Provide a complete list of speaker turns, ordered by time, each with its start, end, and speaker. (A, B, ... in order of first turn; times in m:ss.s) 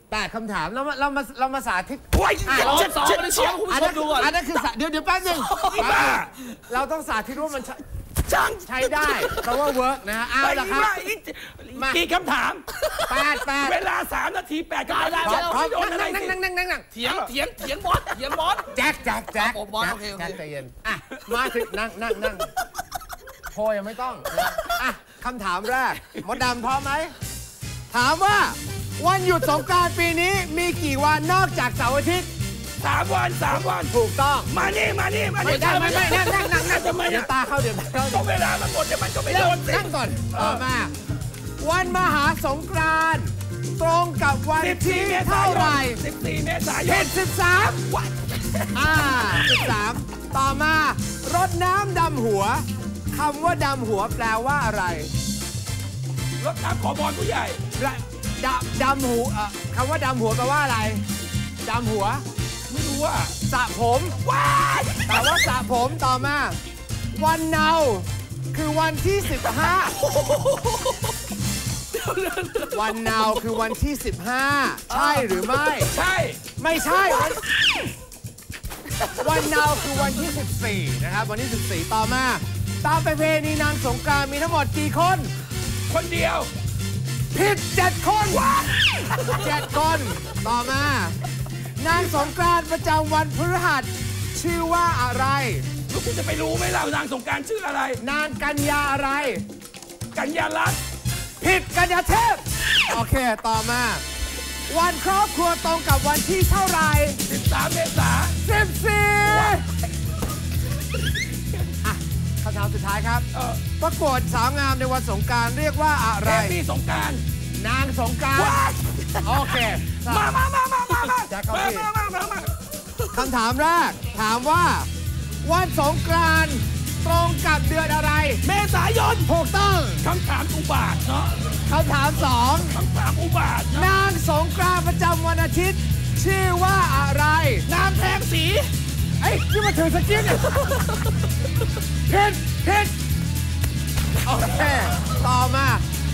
0:00.1-0:03.1 A
0:02.1-0:03.6 B
0:02.3-0:04.4 C
0:03.7-0:07.8 A
0:05.4-0:05.9 C
0:05.6-0:06.3 B
0:08.3-0:09.7 B
0:08.6-0:11.0 A
0:10.4-0:12.7 B
0:11.7-0:12.0 A
0:13.1-0:13.8 A
0:13.2-0:16.4 B
0:14.9-0:15.6 C
0:15.2-0:16.9 A
0:16.9-0:18.8 C
0:17.0-0:17.3 B
0:18.7-0:22.5 A
0:19.4-0:20.4 C
0:23.5-0:27.1 A
0:27.9-0:32.3 A
0:32.8-0:33.9 B
0:33.5-0:34.6 A
0:34.5-0:37.3 B
0:35.4-0:38.3 A
0:37.9-0:40.6 B
0:39.3-0:40.9 A
0:41.6-0:46.0 A
0:44.6-0:47.1 B
0:46.8-0:47.8 A
0:47.9-0:49.6 B
0:48.7-0:55.1 A
0:56.4-0:57.6 B
0:57.8-1:01.0 A
1:01.6-1:02.2 A
1:02.7-1:03.4 B
1:03.5-1:04.2 A
1:04.2-1:05.4 B
1:05.1-1:06.6 A
1:07.1-1:10.0 A
1:10.2-1:10.5 B
1:12.0-1:13.4 B
1:12.7-1:15.9 A
1:15.8-1:16.4 B
1:16.6-1:17.4 A
1:19.1-1:25.3 A
1:25.9-1:26.5 B
1:27.3-1:28.5 A
1:28.3-1:29.7 B
1:29.2-1:31.2 A
1:31.8-1:35.6 A
1:35.9-1:38.0 B
1:38.0-1:39.4 A
1:40.1-1:40.8 B
1:41.4-1:44.0 A
1:44.7-1:47.2 A
1:47.3-1:48.4 B
1:48.4-1:49.6 A
1:49.2-1:49.6 B
1:51.8-1:53.3 A
1:53.3-1:53.6 B
1:53.8-1:56.6 A
1:56.2-1:57.2 B
1:57.6-1:58.7 A
1:58.3-2:02.6 B
1:59.2-2:00.4 A
2:01.3-2:01.9 A
2:03.1-2:04.9 A
2:05.4-2:08.4 A
2:08.4-2:09.3 B
2:09.3-2:10.0 A
2:10.0-2:11.5 B
2:11.7-2:12.8 A
2:12.7-2:13.9 B
2:13.7-2:17.7 A
2:17.7-2:18.7 B
2:19.2-2:20.9 A
2:22.1-2:22.9 A
2:24.2-2:25.8 A